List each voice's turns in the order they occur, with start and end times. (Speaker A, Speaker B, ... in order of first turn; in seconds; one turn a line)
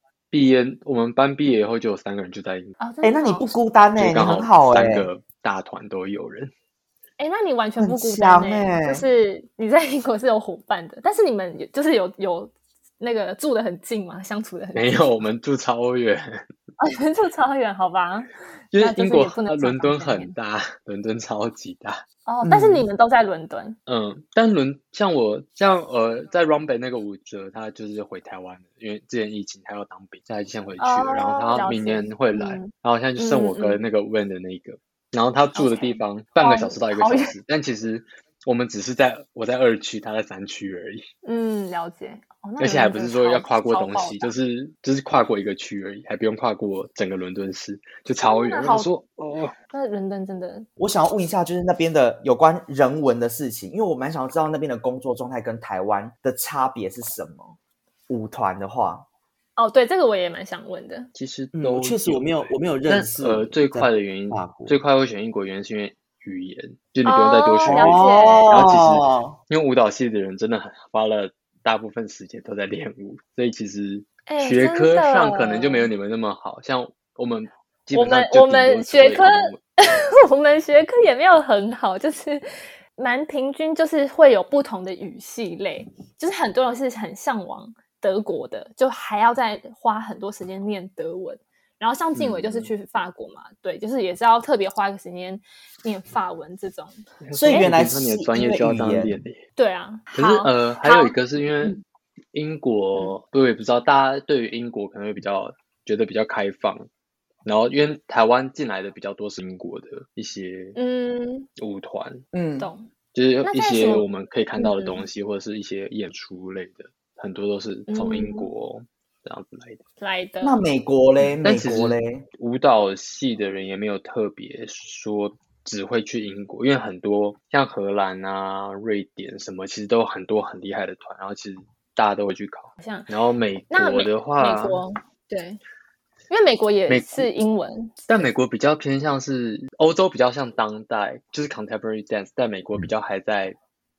Speaker A: 0.3-2.8
Speaker B: 2.8-3.6
Speaker C: 3.0-5.1
Speaker A: 4.0-6.5
Speaker B: 7.2-15.1
Speaker C: 7.8-9.1
Speaker A: 14.7-16.5
Speaker B: 16.8-20.4
Speaker A: 18.7-22.0
Speaker B: 22.3-23.8
Speaker C: 22.4-22.9
Speaker A: 23.9-41.0
Speaker B: 30.8-33.8
Speaker B: 35.5-37.3
Speaker B: 41.2-44.3
Speaker A: 42.6-49.5
Speaker B: 48.2-48.9
Speaker B: 49.7-50.7
Speaker C: 50.8-57.6
Speaker C: 58.1-59.1
Speaker B: 59.6-61.1
Speaker A: 61.1-79.6
Speaker C: 61.5-64.8
Speaker B: 67.0-68.6
Speaker C: 67.7-69.4
Speaker B: 74.3-75.9
Speaker B: 77.9-82.5
Speaker B: 83.0-97.7
Speaker A: 92.1-92.7
Speaker A: 97.2-99.4
Speaker C: 97.3-99.2
Speaker B: 99.6-101.8
Speaker A: 100.1-101.8
Speaker A: 102.3-106.9
Speaker A: 107.5-110.8
Speaker B: 110.8-111.5
Speaker A: 111.6-112.2
Speaker C: 112.3-112.7
Speaker B: 112.6-112.9
Speaker A: 113.1-119.8
Speaker B: 113.4-114.1
Speaker B: 114.6-115.0
Speaker B: 117.9-118.5
Speaker B: 120.0-120.6
Speaker C: 120.4-122.2
Speaker A: 121.2-134.8
Speaker B: 132.8-133.1
Speaker B: 133.7-135.6
Speaker B: 136.3-138.3
Speaker A: 136.9-137.3
Speaker A: 138.1-143.6